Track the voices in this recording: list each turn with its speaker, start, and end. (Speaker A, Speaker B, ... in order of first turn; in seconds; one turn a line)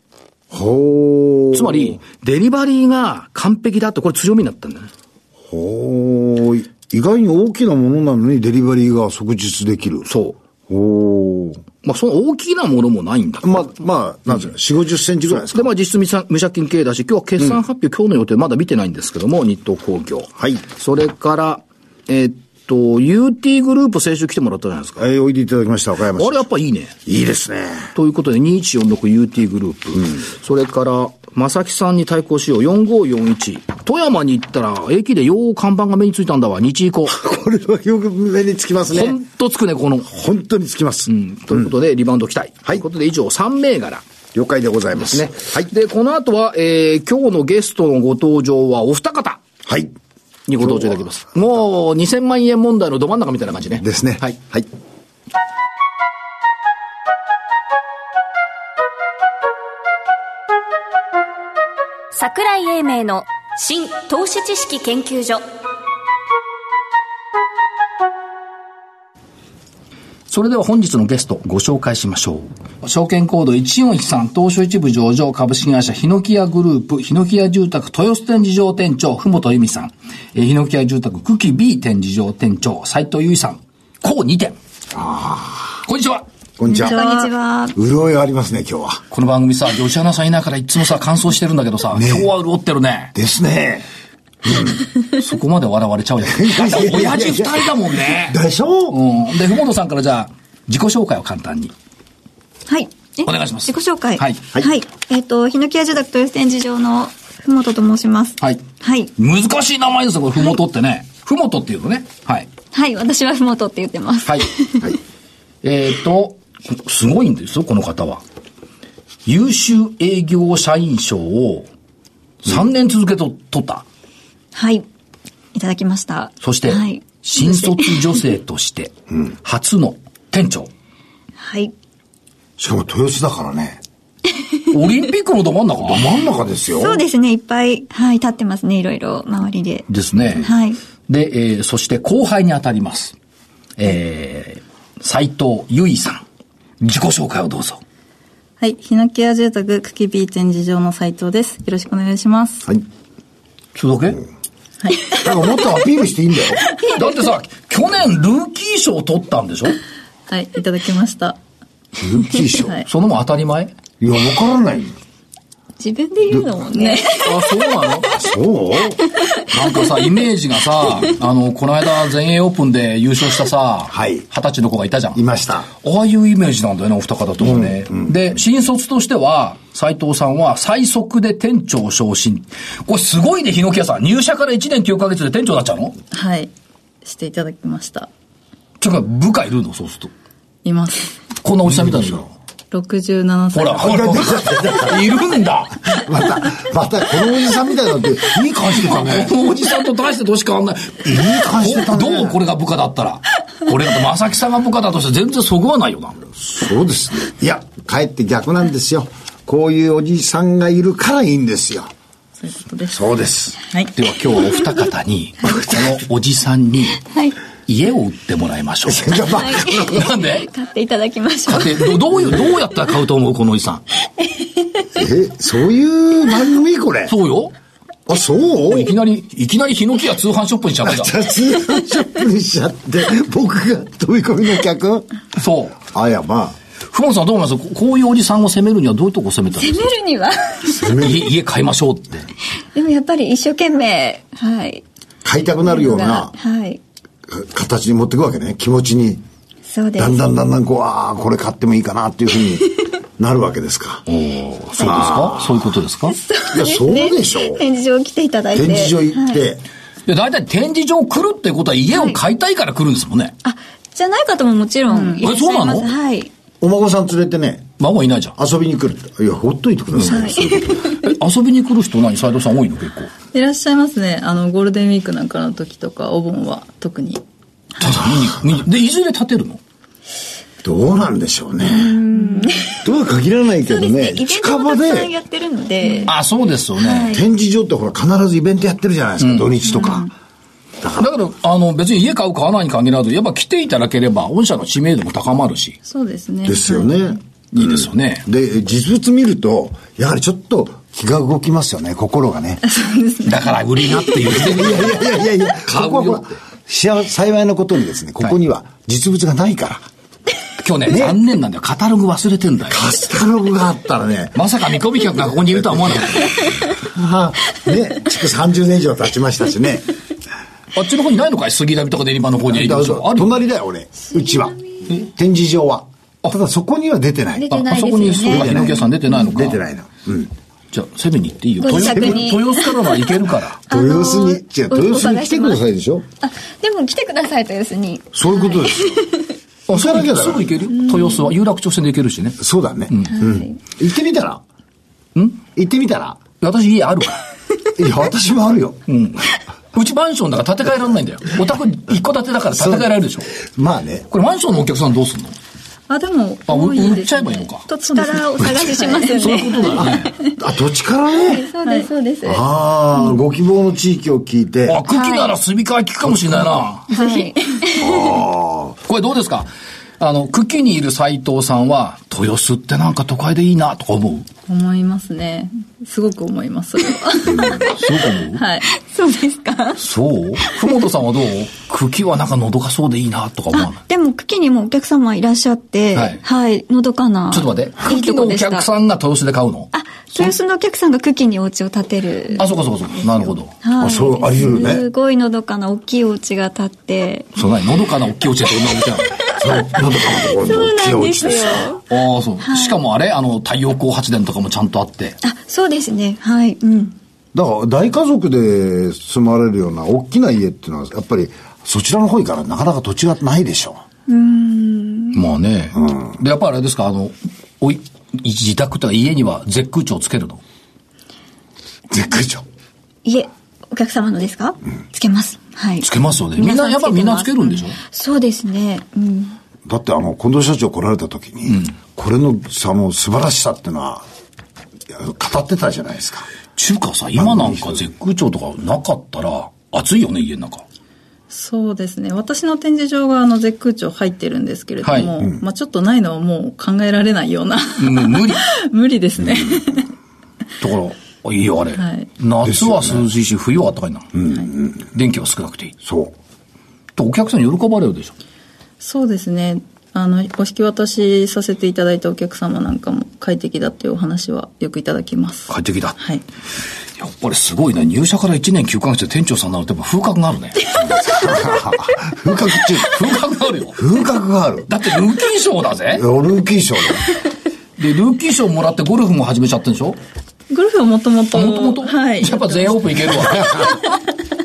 Speaker A: 0.5-2.0
Speaker B: 1.5-4.9
Speaker A: 5.5-10.1
Speaker B: 10.1-10.4
Speaker A: 10.7-11.6
Speaker B: 11.8-13.8
Speaker A: 13.4-15.7
Speaker B: 15.3-25.1
Speaker A: 20.4-20.6
Speaker A: 25.0-26.4
Speaker B: 26.2-26.9
Speaker A: 27.1-27.9
Speaker B: 27.9-37.2
Speaker A: 37.1-39.2
Speaker B: 38.9-40.1
Speaker A: 40.1-41.7
Speaker B: 41.1-44.0
Speaker A: 44.3-45.7
Speaker B: 45.0-49.4
Speaker A: 49.6-49.9
Speaker B: 50.5-54.4
Speaker A: 50.6-51.0
Speaker A: 53.8-54.7
Speaker C: 62.1-65.4
Speaker B: 70.3-84.6
Speaker A: 84.9-85.8
Speaker B: 85.8-86.2
Speaker A: 86.6-87.0
Speaker D: 86.7-87.8
Speaker E: 86.7-87.3
Speaker A: 87.8-89.0
Speaker B: 89.1-93.2
Speaker A: 91.9-92.3
Speaker A: 93.2-93.9
Speaker A: 94.4-94.8
Speaker B: 95.0-98.4
Speaker A: 96.2-99.0
Speaker B: 98.9-101.7
Speaker D: 102.7-109.1
Speaker B: 103.2-104.4
Speaker B: 109.2-112.5
Speaker D: 112.7-114.9
Speaker B: 115.6-118.2
Speaker B: 119.3-121.7
Speaker B: 122.4-123.8
Speaker D: 124.5-124.9
Speaker D: 125.5-128.0
Speaker B: 126.4-130.7
Speaker D: 131.4-131.7
Speaker A: 132.6-133.8
Speaker B: 134.7-136.1
Speaker A: 135.8-137.0
Speaker D: 136.8-139.9
Speaker B: 139.9-140.5
Speaker D: 140.4-140.8
Speaker B: 141.1-143.2
Speaker B: 143.8-146.2
Speaker B: 146.8-147.8
Speaker E: 148.6-152.7
Speaker B: 153.8-154.2
Speaker E: 154.8-155.2
Speaker A: 155.1-156.6
Speaker B: 156.9-159.8
Speaker E: 160.3-161.4
Speaker A: 162.0-162.8
Speaker B: 162.9-163.7
Speaker A: 164.0-165.0
Speaker D: 165.8-167.6
Speaker E: 166.7-167.2
Speaker B: 167.2-168.1
Speaker A: 168.1-169.1
Speaker B: 169.5-175.2
Speaker A: 173.9-174.3
Speaker A: 175.2-175.7
Speaker B: 175.8-185.9
Speaker A: 177.4-178.2
Speaker E: 186.1-186.5
Speaker E: 187.0-188.1
Speaker B: 188.8-190.1
Speaker E: 190.7-191.2
Speaker B: 191.4-192.3
Speaker A: 191.7-192.2
Speaker E: 192.7-194.2
Speaker B: 193.5-196.0
Speaker A: 193.8-195.0
Speaker A: 195.9-199.3
Speaker B: 198.6-206.2
Speaker A: 201.0-202.4
Speaker A: 206.3-211.9
Speaker E: 212.4-213.0
Speaker A: 212.9-213.6
Speaker E: 213.6-213.9
Speaker B: 213.9-217.0
Speaker D: 217.1-217.4
Speaker B: 217.7-219.2
Speaker A: 218.9-220.1
Speaker D: 219.2-222.1
Speaker B: 219.8-220.5
Speaker B: 221.5-223.8
Speaker D: 224.2-224.9
Speaker A: 225.0-227.2
Speaker B: 227.1-227.5
Speaker A: 228.1-228.9
Speaker B: 228.7-231.1
Speaker A: 230.8-235.1
Speaker B: 235.4-235.8
Speaker A: 235.8-236.6
Speaker B: 236.9-239.8
Speaker D: 239.6-240.9
Speaker A: 240.7-241.3
Speaker B: 240.8-242.3
Speaker D: 242.7-244.8
Speaker A: 245.2-246.3
Speaker D: 245.7-246.8
Speaker A: 247.3-249.2
Speaker D: 249.7-250.2
Speaker A: 250.0-254.0
Speaker B: 254.1-256.2
Speaker A: 254.8-255.8
Speaker D: 256.1-259.4
Speaker A: 256.5-257.6
Speaker A: 258.5-259.6
Speaker B: 260.1-263.4
Speaker D: 261.9-262.2
Speaker D: 263.4-266.3
Speaker E: 264.9-265.2
Speaker B: 265.2-265.9
Speaker A: 266.6-267.7
Speaker B: 267.8-268.4
Speaker A: 268.4-271.0
Speaker B: 269.9-270.2
Speaker D: 270.0-271.1
Speaker B: 271.0-273.1
Speaker E: 273.3-277.2
Speaker B: 277.8-279.6
Speaker A: 277.9-278.5
Speaker A: 280.6-282.0
Speaker D: 281.6-282.8
Speaker E: 282.1-282.6
Speaker A: 282.8-285.1
Speaker D: 283.7-286.2
Speaker E: 285.8-286.1
Speaker B: 286.1-287.1
Speaker D: 286.8-287.2
Speaker A: 287.1-290.1
Speaker B: 289.2-289.5
Speaker E: 289.6-290.1
Speaker A: 290.8-291.1
Speaker B: 291.0-295.8
Speaker E: 295.9-297.0
Speaker A: 296.4-302.6
Speaker B: 297.5-298.3
Speaker D: 302.8-303.6
Speaker B: 303.2-306.4
Speaker A: 304.3-309.9
Speaker B: 310.6-312.9
Speaker A: 310.9-311.2
Speaker A: 312.7-314.4
Speaker B: 314.4-316.6
Speaker A: 315.4-319.9
Speaker B: 320.8-323.4
Speaker A: 322.5-327.5
Speaker D: 327.4-328.9
Speaker B: 327.5-329.6
Speaker A: 328.2-330.3
Speaker B: 330.7-333.6
Speaker D: 331.6-333.1
Speaker A: 331.7-332.3
Speaker A: 333.7-336.1
Speaker D: 333.7-335.6
Speaker D: 336.2-339.3
Speaker A: 338.1-339.0
Speaker B: 339.7-342.4
Speaker A: 339.7-340.5
Speaker D: 340.7-341.3
Speaker A: 342.4-344.4
Speaker B: 342.9-343.1
Speaker D: 343.1-343.6
Speaker B: 345.2-345.4
Speaker A: 345.6-346.2
Speaker B: 346.4-347.2
Speaker A: 347.8-348.8
Speaker B: 348.9-353.3
Speaker A: 352.6-352.9
Speaker A: 353.4-354.1
Speaker B: 354.1-355.4
Speaker E: 355.9-359.9
Speaker B: 356.5-357.6
Speaker D: 357.7-360.1
Speaker B: 359.1-360.1
Speaker A: 359.8-361.5
Speaker D: 361.2-362.5
Speaker E: 361.6-361.9
Speaker A: 362.2-364.8
Speaker B: 364.7-366.9
Speaker D: 364.9-365.4
Speaker D: 366.9-368.2
Speaker E: 366.9-367.4
Speaker A: 367.8-368.8
Speaker B: 368.9-374.3
Speaker E: 374.5-377.8
Speaker A: 377.3-377.6
Speaker B: 377.6-378.4
Speaker E: 378.3-378.7
Speaker D: 378.7-379.8
Speaker B: 379.8-383.8
Speaker D: 383.5-388.7
Speaker B: 385.9-386.2
Speaker B: 387.3-390.3
Speaker D: 389.7-392.5
Speaker B: 392.4-393.5
Speaker D: 393.6-397.3
Speaker A: 393.8-394.9
Speaker B: 397.4-399.2
Speaker A: 399.4-401.8
Speaker D: 399.4-401.8
Speaker B: 401.9-405.2
Speaker D: 402.4-402.8
Speaker D: 405.2-407.0
Speaker A: 407.3-413.8
Speaker D: 414.1-415.2
Speaker B: 415.1-420.4
Speaker A: 415.8-416.2
Speaker A: 421.9-422.4
Speaker D: 423.0-429.4
Speaker B: 425.8-427.8
Speaker A: 429.6-434.1
Speaker B: 431.5-431.7
Speaker A: 434.9-436.3
Speaker B: 436.6-440.6
Speaker A: 437.2-437.9
Speaker E: 441.3-449.9
Speaker B: 444.8-445.1
Speaker B: 447.8-448.5
Speaker A: 449.2-449.8
Speaker B: 450.6-454.1
Speaker E: 451.8-452.1
Speaker A: 452.4-453.1
Speaker A: 454.1-454.9
Speaker B: 454.9-455.8
Speaker A: 455.8-456.1
Speaker B: 457.0-458.1
Speaker E: 458.8-466.2
Speaker B: 465.5-466.0
Speaker B: 467.0-470.7
Speaker A: 470.8-473.0
Speaker B: 472.8-473.8
Speaker A: 473.8-474.7
Speaker B: 474.7-476.1
Speaker A: 475.9-477.1
Speaker B: 477.8-480.0
Speaker E: 480.5-482.8
Speaker B: 481.3-483.8
Speaker A: 483.2-483.7